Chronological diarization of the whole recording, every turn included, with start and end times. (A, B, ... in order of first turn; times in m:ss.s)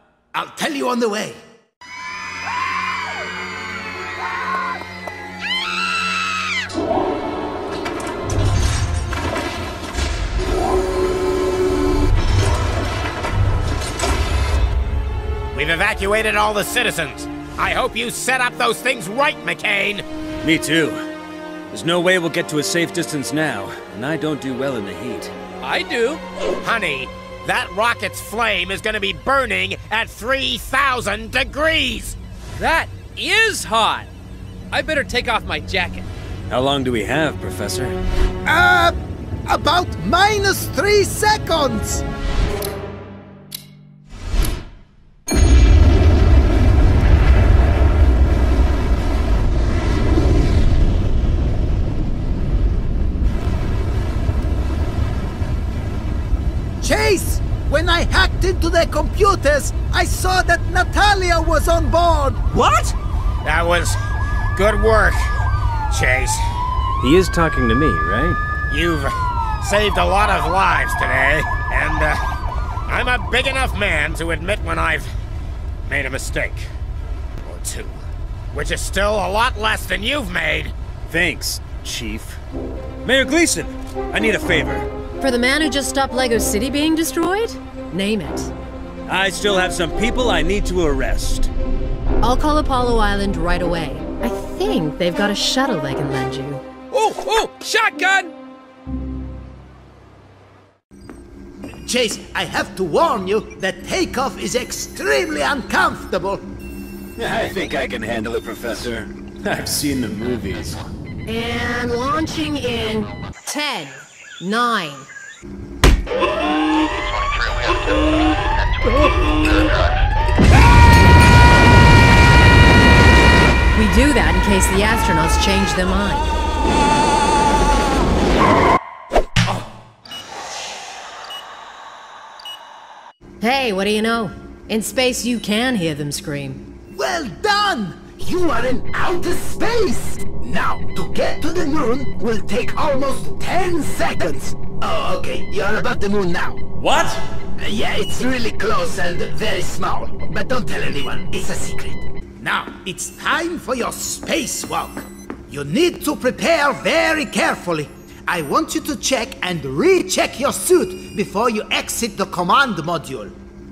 0:00.3-0:01.4 A
0:15.5-0:20.1 B
0:20.4-0:21.0 C
0:21.7-0:25.3 C
0:25.6-0:26.2 D
0:26.6-0:32.2 B
0:32.6-0:34.1 D
0:34.7-0:36.1 D
0:36.5-0:38.0 C
0:38.5-0:42.0 A
0:56.8-1:02.6 A
1:03.4-1:04.0 B
1:04.6-1:05.4 B
1:05.9-1:06.4 B
1:07.0-1:08.4 C
1:08.7-1:12.2 B
1:12.9-1:15.1 B
1:15.9-1:16.7 B
1:17.4-1:20.7 B
1:21.1-1:22.4 C
1:23.0-1:24.9 C
1:25.2-1:28.5 E
1:29.1-1:31.5 C
1:32.2-1:36.6 E
1:36.9-1:38.3 D
1:41.8-1:46.4 A
1:47.2-1:50.8 C
1:51.3-1:55.1 E
2:03.8-2:06.3 E
2:13.4-2:16.6 E
2:16.9-2:26.6 A
2:26.8-2:27.2 C
2:27.6-2:43.3 A